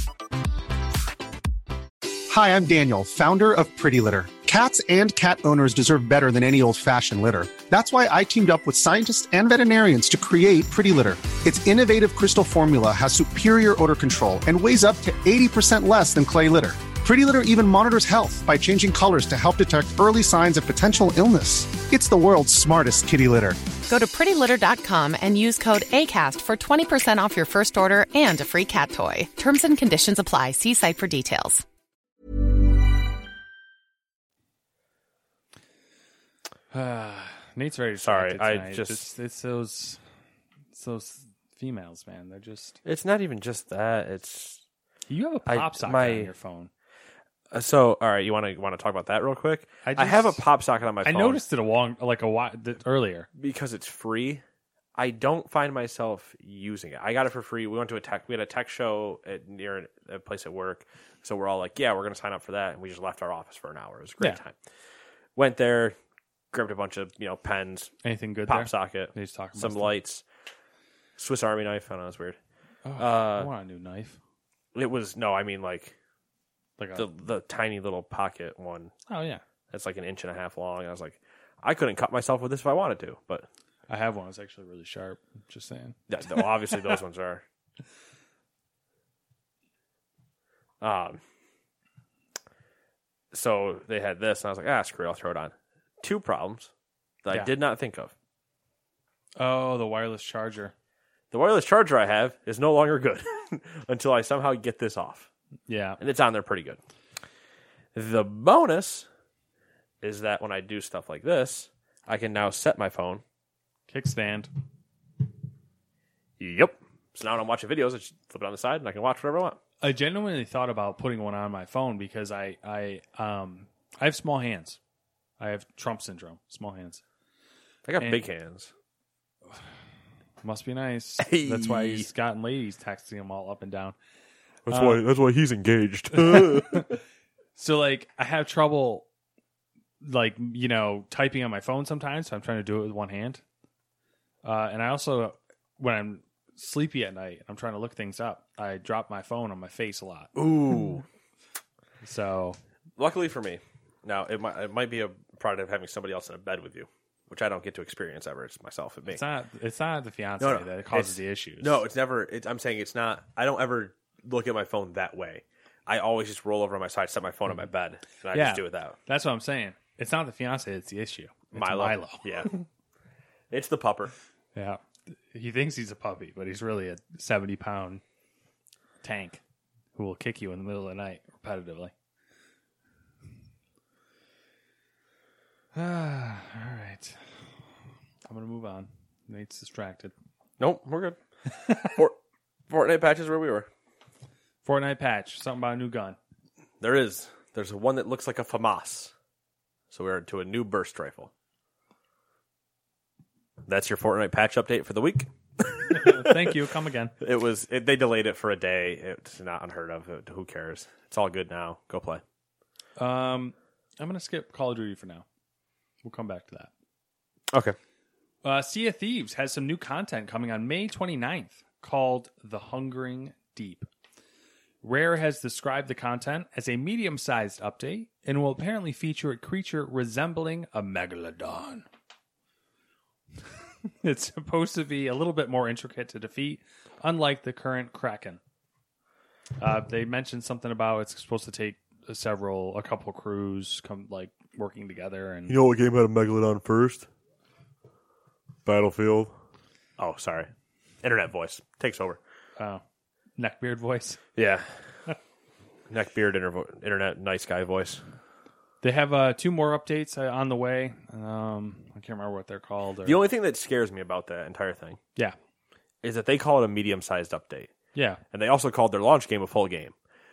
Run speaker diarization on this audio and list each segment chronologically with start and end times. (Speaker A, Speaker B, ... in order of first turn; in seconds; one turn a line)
Speaker A: 2.3-23.6
Speaker B: 23.9-31.6
Speaker C: 36.7-40.0
Speaker D: 38.0-39.1
Speaker C: 40.7-42.8
Speaker D: 42.8-44.6
Speaker C: 45.1-46.7
Speaker D: 45.5-46.3
Speaker D: 47.5-51.4
Speaker C: 49.8-50.4
Speaker C: 51.0-53.3
Speaker D: 53.4-54.4
Speaker D: 55.0-64.5
Speaker D: 65.3-65.9
Speaker D: 66.5-67.9
Speaker C: 68.0-69.9
Speaker D: 68.5-70.2
Speaker D: 71.2-72.4
Speaker C: 72.8-74.2
Speaker D: 73.0-73.5
Speaker D: 74.7-75.9
Speaker C: 76.8-77.0
Speaker D: 77.0-78.9
Speaker C: 79.1-79.4
Speaker D: 79.7-83.5
Speaker C: 83.9-86.4
Speaker D: 86.1-87.4
Speaker D: 90.8-91.2
Speaker D: 93.3-96.7
Speaker D: 97.2-98.1
Speaker C: 99.4-100.7
Speaker D: 101.3-105.3
Speaker C: 105.7-106.0
Speaker D: 106.0-106.8
Speaker D: 107.9-109.0
Speaker D: 110.0-113.2
Speaker C: 113.9-114.5
Speaker D: 116.4-119.6
Speaker C: 119.8-124.8
Speaker C: 125.4-127.0
Speaker D: 127.8-128.7
Speaker C: 130.4-133.9
Speaker D: 131.2-132.1
Speaker D: 134.7-136.9
Speaker C: 134.7-135.0
Speaker C: 136.1-136.9
Speaker C: 137.6-139.1
Speaker C: 140.0-143.4
Speaker C: 144.4-150.3
Speaker D: 150.3-151.0
Speaker C: 152.0-152.6
Speaker D: 153.0-159.2
Speaker C: 159.1-161.8
Speaker D: 160.4-169.0
Speaker C: 168.3-172.6
Speaker D: 171.5-172.5
Speaker D: 173.5-174.1
Speaker C: 174.5-178.0
Speaker C: 179.0-179.4
Speaker C: 179.9-181.9
Speaker C: 185.7-187.2
Speaker C: 188.3-190.1
Speaker D: 190.6-191.2
Speaker D: 191.8-192.2
Speaker D: 192.7-193.7
Speaker C: 194.6-196.2
Speaker D: 196.8-199.1
Speaker D: 199.9-201.3
Speaker D: 203.7-206.5
Speaker C: 205.9-207.1
Speaker D: 207.2-212.2
Speaker C: 213.0-215.2
Speaker C: 216.0-216.7
Speaker C: 218.4-223.9
Speaker C: 224.8-231.8
Speaker C: 234.0-238.4
Speaker C: 239.6-245.6
Speaker D: 245.5-247.1
Speaker D: 248.6-249.3
Speaker D: 250.0-250.5
Speaker D: 251.0-252.2
Speaker C: 253.4-254.2
Speaker D: 254.3-254.8
Speaker D: 255.9-258.0
Speaker C: 258.8-263.2
Speaker D: 263.0-265.0
Speaker D: 266.0-267.7
Speaker C: 267.9-268.2
Speaker D: 268.3-269.9